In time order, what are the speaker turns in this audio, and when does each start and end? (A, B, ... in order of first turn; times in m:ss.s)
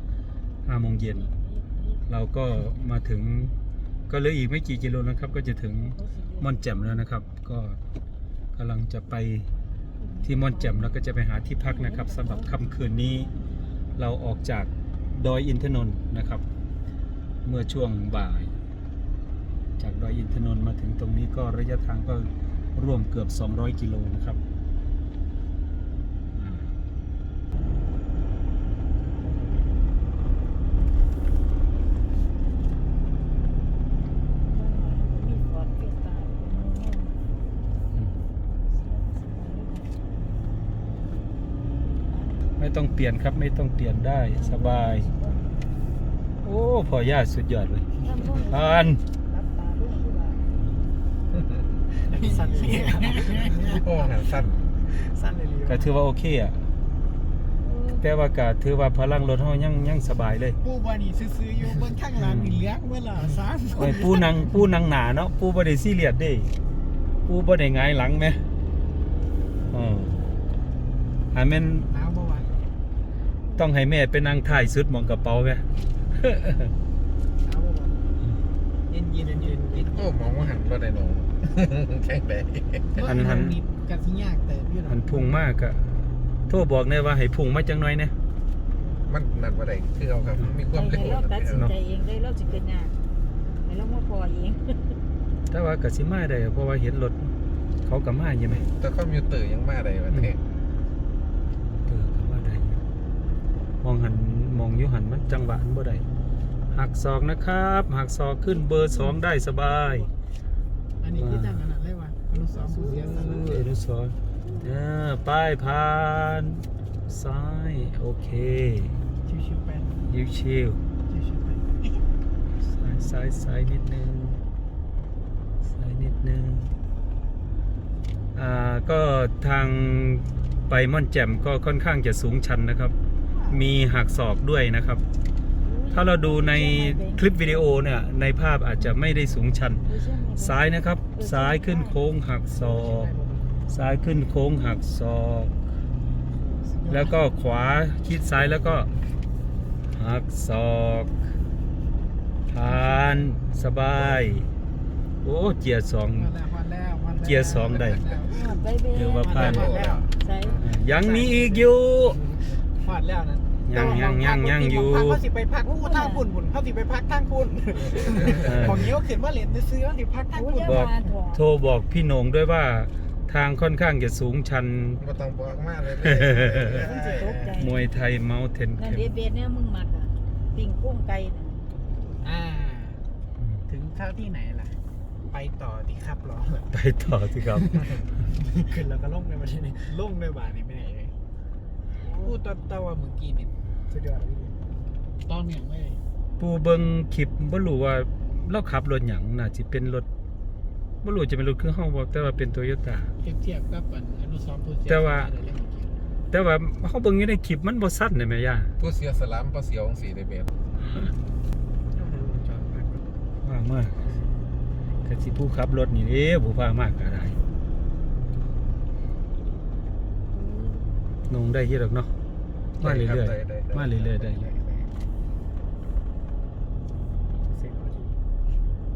0:00.6-0:01.3 A
0:01.0-0:02.0 B
0:02.1-0:03.5 A
0:04.1-0:07.8 A
0:05.8-0:07.0 B
0:08.5-0:09.5 A
0:10.0-0:10.9 B
0:10.2-0:13.3 A
0:11.6-0:12.6 B
0:14.0-0:16.4 A
0:17.4-0:18.5 A
0:19.8-0:24.4 A
0:26.3-0:26.8 A
0:34.5-0:37.2 B
0:37.9-0:38.2 A
0:38.5-0:40.0 B
0:41.9-0:42.4 B
0:42.6-0:45.1 A
0:44.3-0:45.6 B
0:46.4-0:47.9 A
0:48.0-0:50.4 B
0:48.4-0:49.0 A
0:52.1-0:54.1 C
0:52.2-0:53.1 B
0:53.6-0:54.6 D
0:54.8-0:55.9 C
0:55.6-0:56.7 A
0:57.6-0:58.0 B
0:58.0-1:00.6 A
1:00.6-1:04.5 C
1:02.2-1:02.7 A
1:03.7-1:06.5 A
1:07.3-1:08.4 A
1:09.7-1:10.2 A
1:11.3-1:11.9 A
1:11.9-1:12.7 C
1:13.6-1:16.7 A
1:17.4-1:18.0 C
1:18.9-1:20.1 C
1:19.5-1:19.9 B
1:19.9-1:23.0 D
1:23.0-1:25.4 C
1:23.0-1:23.6 A
1:24.9-1:28.1 A
1:29.1-1:31.7 D
1:30.7-1:32.9 B
1:33.6-1:35.0 B
1:35.5-1:37.3 A
1:37.8-1:38.7 A
1:38.6-1:40.4 D
1:41.7-1:42.8 A
1:43.8-1:46.0 A
1:46.7-1:50.1 A
1:48.4-1:50.0 B
1:51.0-1:53.7 C
1:51.1-1:51.6 A
1:52.3-1:53.5 B
1:52.8-1:59.0 A
1:54.4-1:54.7 B
1:59.2-2:00.0 C
2:00.1-2:00.8 A
2:01.1-2:02.0 C
2:02.6-2:04.4 A
2:05.6-2:06.8 A
2:08.3-2:12.9 A
2:13.3-2:13.6 B
2:13.5-2:15.0 A
2:15.6-2:17.4 B
2:15.9-2:19.8 A
2:19.8-2:22.0 B
2:20.4-2:23.1 A
2:22.6-2:23.5 C
2:23.7-2:25.5 A
2:26.4-2:26.7 B
2:26.7-2:27.2 C
2:26.9-2:28.9 A
2:29.9-2:31.2 A
2:32.5-2:34.5 A
2:32.7-2:33.1 B
2:35.2-2:36.4 A
2:36.1-2:38.5 C
2:37.1-2:38.1 A
2:38.2-2:39.5 B
2:38.9-2:39.7 A
2:39.2-2:41.7 C
2:39.4-2:40.1 D
2:40.2-2:40.6 B
2:40.6-2:42.2 A
2:42.2-2:50.9 C
2:43.6-2:45.2 A
2:45.6-2:46.2 B
2:48.4-2:48.9 A
2:50.3-2:51.4 B
2:50.6-2:55.0 A
2:55.0-2:57.5 D
2:56.0-2:56.7 A
2:56.6-2:57.8 B
2:57.6-2:59.0 A
2:58.8-3:01.6 B
3:02.2-3:03.0 C
3:03.4-3:03.7 A
3:03.7-3:04.8 C
3:05.3-3:06.7 C
3:06.7-3:07.9 A
3:07.5-3:11.1 C
3:12.0-3:12.4 B
3:12.1-3:14.5 C
3:15.2-3:16.0 C
3:16.4-3:20.1 A
3:21.0-3:23.1 A
3:23.2-3:25.9 C
3:24.8-3:25.3 A
3:26.3-3:28.7 A
3:28.8-3:30.5 D
3:32.0-3:33.0 C
3:33.4-3:34.1 A
3:35.0-3:37.4 A
3:40.3-3:40.9 B
3:41.3-3:42.1 A
3:42.8-3:44.5 A
3:42.8-3:44.6 D
3:47.4-3:48.2 C